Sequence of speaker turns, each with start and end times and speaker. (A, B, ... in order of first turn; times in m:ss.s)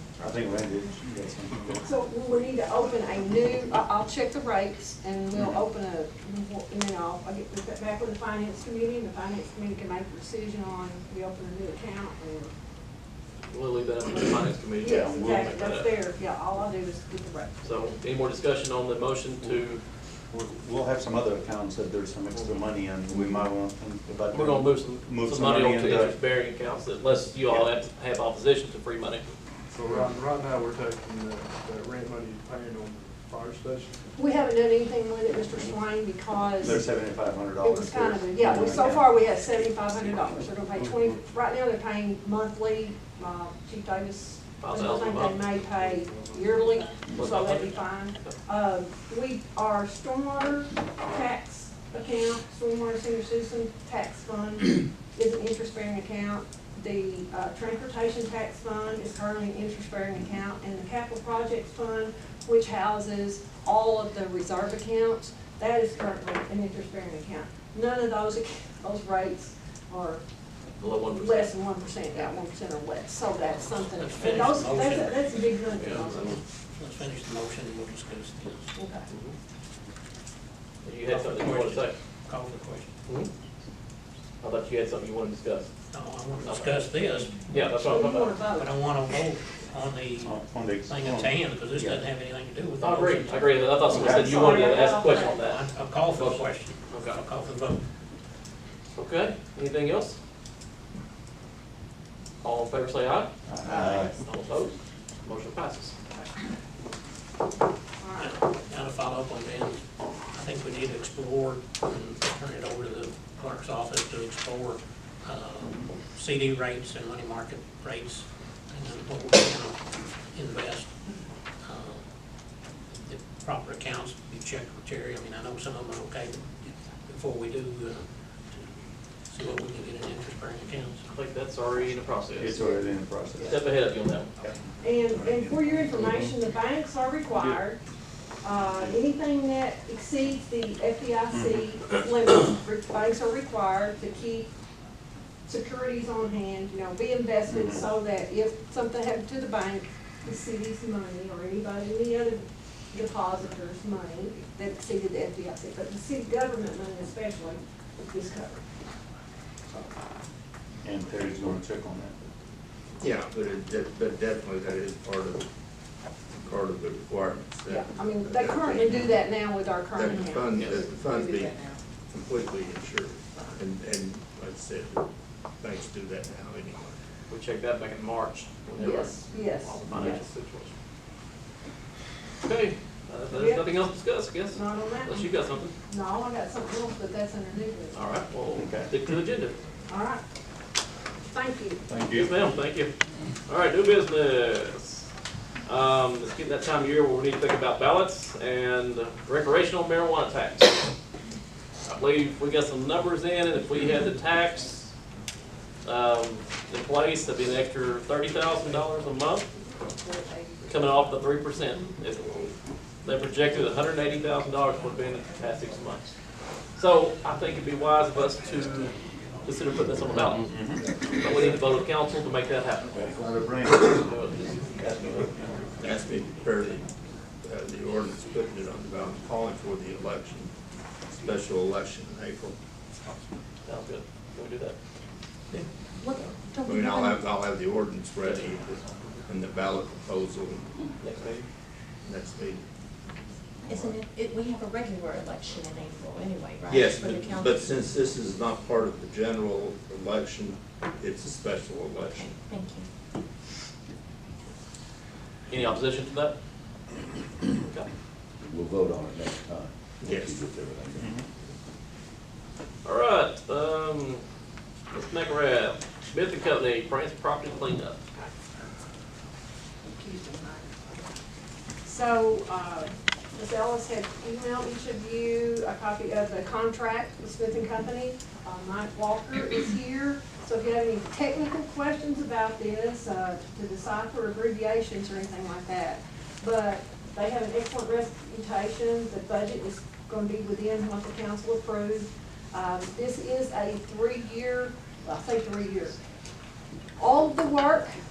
0:00.2-0:01.8 A
0:01.8-0:12.5 B
0:13.5-0:15.9 C
0:14.8-0:17.8 B
0:14.8-0:15.5 A
0:17.6-0:19.8 C
0:20.3-0:26.1 A
0:24.3-0:29.2 C
0:29.7-0:34.0 D
0:34.2-0:36.9 B
0:36.6-0:39.1 A
0:37.6-1:10.2 B
0:44.6-0:45.4 C
0:45.6-0:47.0 D
0:47.1-0:48.4 C
1:10.8-1:11.5 C
1:11.0-1:16.4 B
1:13.8-1:15.5 E
1:15.7-1:16.4 C
1:16.7-1:18.7 E
1:18.7-1:19.1 B
1:19.1-1:19.3 C
1:20.8-1:21.9 C
1:21.1-1:22.9 E
1:24.4-1:25.7 C
1:25.9-1:27.5 E
1:26.4-1:26.9 C
1:27.5-1:28.4 C
1:27.6-1:28.7 B
1:28.6-1:37.8 E
1:30.2-1:32.0 A
1:32.8-1:37.2 C
1:33.9-1:34.3 A
1:34.0-1:35.4 B
1:38.9-1:40.2 C
1:42.4-1:46.0 C
1:43.4-1:44.1 A
1:48.0-1:48.4 B
1:48.2-1:59.8 E
2:00.3-2:00.9 E
2:01.6-2:02.0 E
2:02.9-2:11.1 E
2:11.1-2:12.6 C
2:12.3-2:13.6 A
2:12.5-2:12.8 B
2:13.4-2:14.3 C
2:14.8-2:17.8 B
2:16.0-2:16.3 A
2:18.4-2:24.5 B
2:21.3-2:21.6 A
2:25.4-2:38.6 B
2:27.5-2:27.8 A
2:40.8-2:42.2 A
2:43.0-2:45.5 F
2:46.4-2:49.0 F
2:47.7-2:51.7 B
2:49.9-2:51.5 F
2:52.1-2:55.0 F
2:55.6-2:57.0 F
2:57.3-3:00.7 C
2:58.8-3:00.2 B
3:02.4-3:05.7 C
3:03.3-3:03.8 B
3:04.5-3:08.0 B
3:07.9-3:09.5 C
3:08.5-3:08.9 A
3:09.9-3:10.2 B
3:11.2-3:11.8 B
3:11.9-3:12.4 A
3:12.1-3:12.9 C
3:13.5-3:15.1 C
3:15.6-3:20.8 C
3:21.8-3:24.9 C
3:25.8-3:29.5 C
3:29.7-3:31.0 B
3:30.6-3:36.0 C
3:36.7-3:40.5 C
3:40.4-3:40.8 A
3:41.2-3:46.0 C
3:42.9-3:44.0 A
3:45.8-3:46.9 F
3:47.4-3:50.5 F
3:51.1-3:52.6 F
3:53.6-3:54.8 C
3:56.0-3:57.2 G
3:56.6-4:01.3 F
3:58.2-3:58.6 C
4:01.0-4:01.4 C
4:02.0-4:02.6 F
4:03.6-4:07.4 G
4:06.6-4:12.3 F
4:12.2-4:12.9 G
4:15.5-4:16.3 C
4:17.6-4:17.9 C
4:18.4-4:21.1 H
4:21.0-4:21.3 A
4:22.8-4:24.2 C
4:24.9-4:28.0 C
4:30.0-4:30.6 B
4:31.8-4:56.0 B
4:57.0-4:57.9 B